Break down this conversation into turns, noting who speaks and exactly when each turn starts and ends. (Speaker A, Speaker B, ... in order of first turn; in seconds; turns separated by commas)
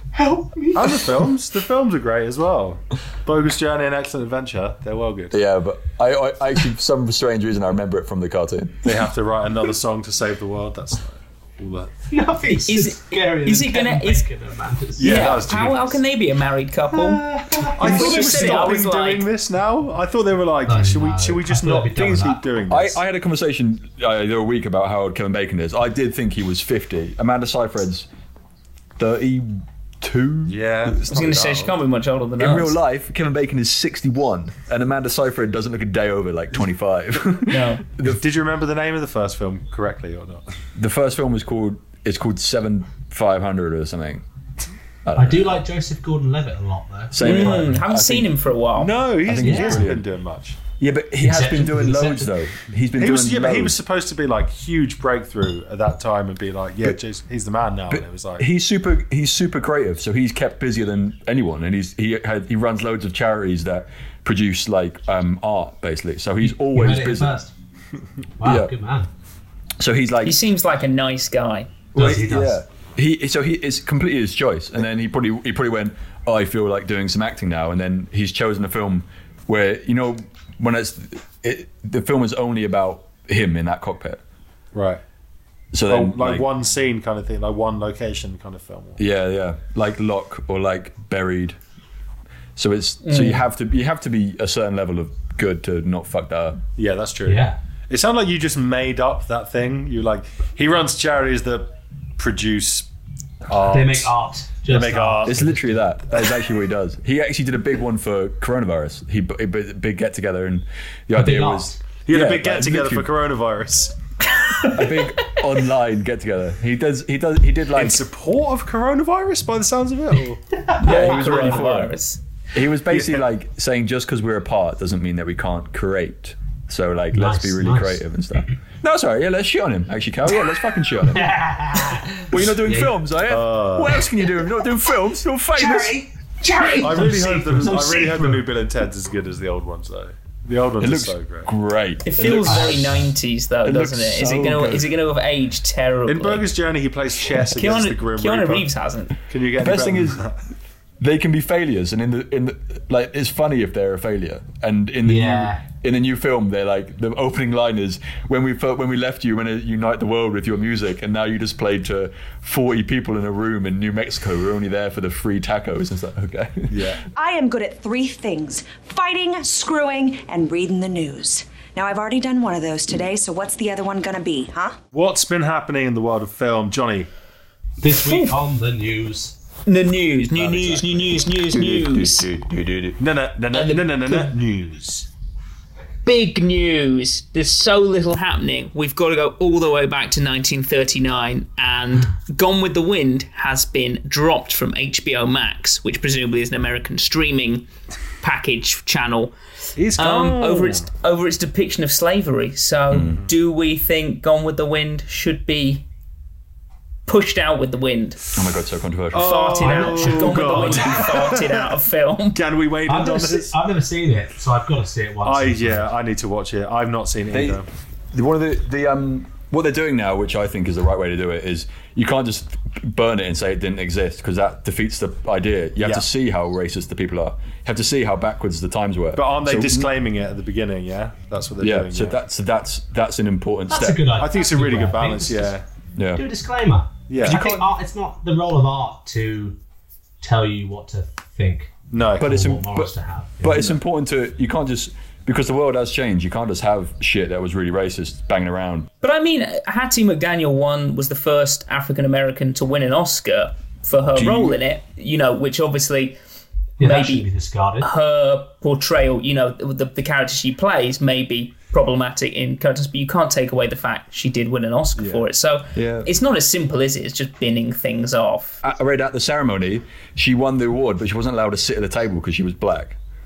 Speaker A: 0.1-1.1, Speaker B: 0.8-5.4, Speaker C: 5.3-8.9, Speaker B: 8.8-11.9, Speaker A: 12.1-15.5, Speaker D: 12.7-14.2, Speaker B: 15.0-16.0, Speaker D: 15.0-17.2, Speaker A: 16.9-18.8, Speaker B: 17.6-23.0, Speaker D: 17.8-19.3, Speaker A: 20.7-22.4, Speaker C: 22.7-28.1, Speaker C: 29.0-31.4, Speaker B: 30.5-31.7, Speaker D: 31.1-32.8, Speaker C: 32.4-38.2, Speaker D: 37.5-37.9, Speaker B: 38.0-40.4, Speaker C: 40.8-44.2, Speaker C: 45.0-45.6, Speaker A: 45.2-47.8, Speaker C: 47.1-48.3, Speaker D: 47.2-49.0, Speaker B: 48.8-50.6, Speaker C: 49.2-50.0, Speaker A: 49.4-49.9, Speaker C: 50.8-53.8, Speaker A: 51.2-52.3, Speaker B: 53.0-58.5, Speaker C: 57.9-67.4, Speaker A: 66.4-67.5, Speaker A: 68.4-69.1, Speaker C: 68.4-68.7, Speaker C: 69.8-70.4, Speaker D: 70.2-71.8, Speaker C: 71.9-84.2, Speaker A: 72.0-72.6, Speaker B: 84.7-85.0, Speaker C: 85.7-86.5, Speaker B: 85.9-89.0, Speaker C: 89.0-91.6, Speaker C: 92.6-96.6, Speaker D: 93.0-93.5, Speaker B: 96.8-102.9, Speaker A: 97.3-97.6, Speaker B: 103.5-104.1, Speaker A: 103.7-105.8, Speaker B: 104.7-105.5, Speaker C: 105.2-113.1, Speaker A: 111.1-111.8, Speaker B: 112.1-113.9, Speaker C: 114.7-118.1, Speaker B: 117.7-121.9, Speaker D: 120.8-122.2, Speaker C: 120.8-121.9, Speaker C: 122.5-136.0, Speaker B: 122.9-123.2, Speaker A: 127.1-128.0, Speaker A: 131.0-133.0, Speaker B: 133.2-134.0, Speaker A: 135.6-138.4, Speaker B: 136.8-141.5, Speaker C: 140.8-143.0, Speaker D: 142.1-146.5, Speaker A: 142.5-143.0, Speaker C: 143.6-144.9, Speaker B: 146.1-148.7, Speaker D: 147.3-149.2, Speaker B: 149.3-150.4, Speaker C: 149.6-150.2, Speaker C: 151.0-167.0, Speaker A: 155.0-155.6, Speaker B: 166.7-167.0, Speaker E: 167.2-174.8, Speaker B: 174.9-177.1, Speaker A: 177.8-179.4, Speaker D: 178.1-178.3, Speaker D: 179.7-182.3, Speaker A: 180.4-181.2, Speaker C: 181.5-183.0, Speaker B: 183.0-185.1, Speaker D: 183.5-184.3, Speaker D: 186.1-197.7, Speaker D: 198.2-199.3, Speaker B: 199.8-200.9, Speaker D: 199.9-205.8, Speaker C: 202.9-203.2, Speaker B: 203.0-203.3, Speaker D: 207.1-208.3, Speaker C: 208.3-209.8, Speaker B: 209.1-211.7, Speaker D: 209.2-212.4, Speaker A: 209.6-211.2, Speaker B: 212.3-213.5, Speaker A: 212.9-215.9, Speaker B: 215.2-217.7, Speaker C: 217.3-229.9, Speaker B: 225.8-226.1, Speaker B: 229.2-232.2, Speaker C: 231.6-234.1, Speaker A: 233.7-235.6, Speaker B: 234.2-235.6, Speaker C: 236.0-236.2, Speaker A: 236.2-239.6, Speaker B: 237.1-237.5, Speaker C: 237.2-237.7, Speaker A: 240.2-243.7, Speaker B: 241.9-242.4, Speaker C: 242.2-248.9, Speaker B: 243.5-243.8, Speaker D: 249.0-256.2, Speaker C: 254.1-254.6, Speaker D: 256.8-257.3, Speaker A: 256.8-257.9, Speaker D: 257.8-268.6, Speaker B: 265.0-265.2, Speaker C: 265.8-266.1, Speaker C: 268.6-273.0